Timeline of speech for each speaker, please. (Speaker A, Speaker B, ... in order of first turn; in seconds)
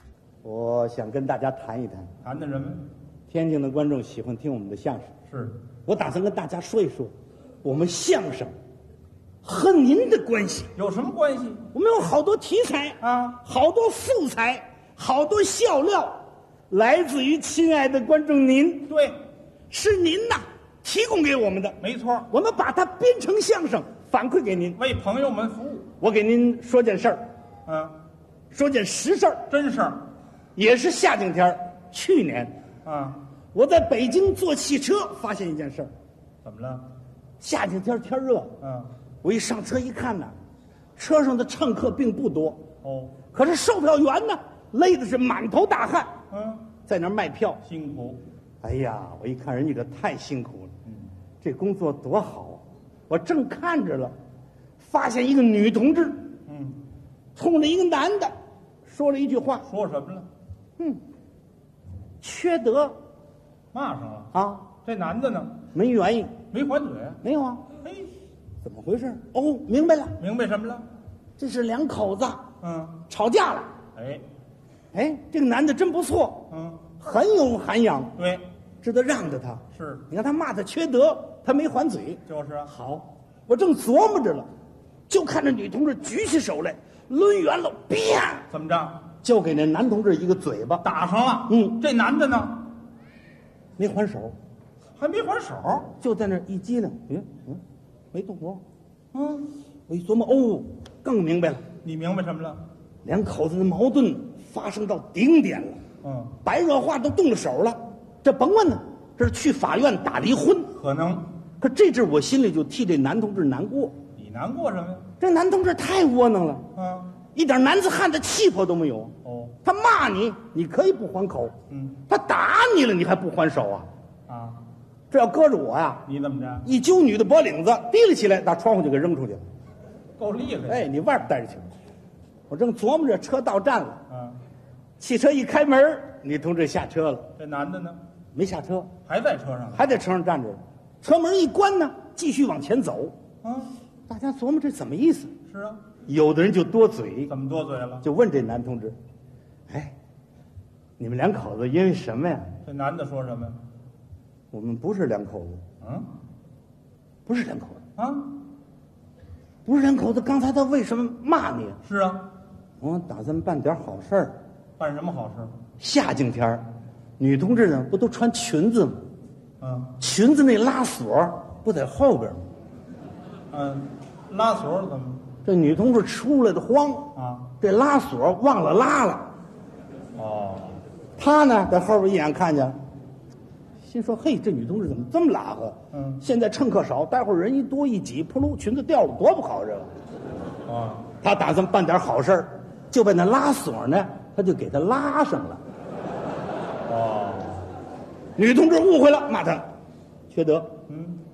Speaker A: 0.4-2.1, 3.3-5.1, 5.8-7.1, 7.6-8.5, 9.4-10.7, 11.7-18.9, 19.7-24.8, 26.0-27.2, 28.5-29.5, 30.6-32.5, 33.5-35.9, 37.4-38.5, 39.2-40.3, 41.0-42.6, 43.3-46.1, 46.8-47.6, 48.6-50.7, 51.4-54.1, 54.8-56.3, 57.3-58.3, 58.9-59.7, 62.2-63.0, 64.3-64.7, 65.7-66.4, 67.2-67.6, 68.6-70.2, 71.4-72.4, 73.1-73.7, 74.9-78.1, 78.8-84.5, 85.1-88.5, 89.2-90.8, 91.5-91.8, 93.8-94.3, 95.9-97.6, 98.1-98.6, 99.9-101.6, 103.0-105.8, 106.4-110.7, 111.6-114.0, 115.2-116.7, 117.3-121.5, 122.0-123.9, 125.1-126.0, 126.6-129.4, 130.7-131.7, 132.5-134.0, 135.0-137.3, 138.3-138.9, 139.7-143.1, 144.1-145.3, 146.1-147.3, 148.0-148.9, 149.7-149.9, 151.0-152.6, 154.5-155.6, 157.2-157.8, 159.6-161.8, 162.8-164.3, 165.8-166.7, 167.2-169.0, 170.0-172.4, 175.4-179.3, 181.2-182.8, 183.8-189.9, 191.2-195.6, 198.4-199.7, 200.3-200.8
Speaker B: 2.2-2.8, 5.3-5.6, 10.8-11.6, 13.0-13.4, 18.9-19.2, 21.8-22.3, 24.8-25.9, 27.6-27.9, 29.5-30.0, 32.8-33.2, 36.4-36.9, 38.6-38.9, 42.8-43.2, 46.3-46.7, 47.7-48.2, 56.5-56.8, 59.7-60.3, 63.7-64.3, 64.8-65.6, 66.5-67.2, 67.8-68.1, 70.2-70.8, 72.6-73.0, 74.0-74.2, 76.5-76.8, 79.8-80.0, 82.3-82.7, 88.5-89.0, 90.8-92.6, 95.0-95.9, 99.1-99.5, 101.8-102.6, 106.0-106.3, 110.8-111.2, 114.2-115.0, 116.8-117.1, 119.2-119.5, 124.3-124.6, 126.1-126.6, 130.2-130.8, 134.1-134.4, 137.4-138.0, 139.1-139.8, 143.4-143.7, 145.5-145.8, 147.3-148.0, 152.6-153.6, 155.8-156.1, 158.0-158.3, 161.9-162.2, 164.8-165.5, 169.6-169.9, 173.5-175.2, 177.2-177.4, 180.2-180.8, 185.9-186.2, 190.7-191.1, 196.8-197.6, 200.9-201.2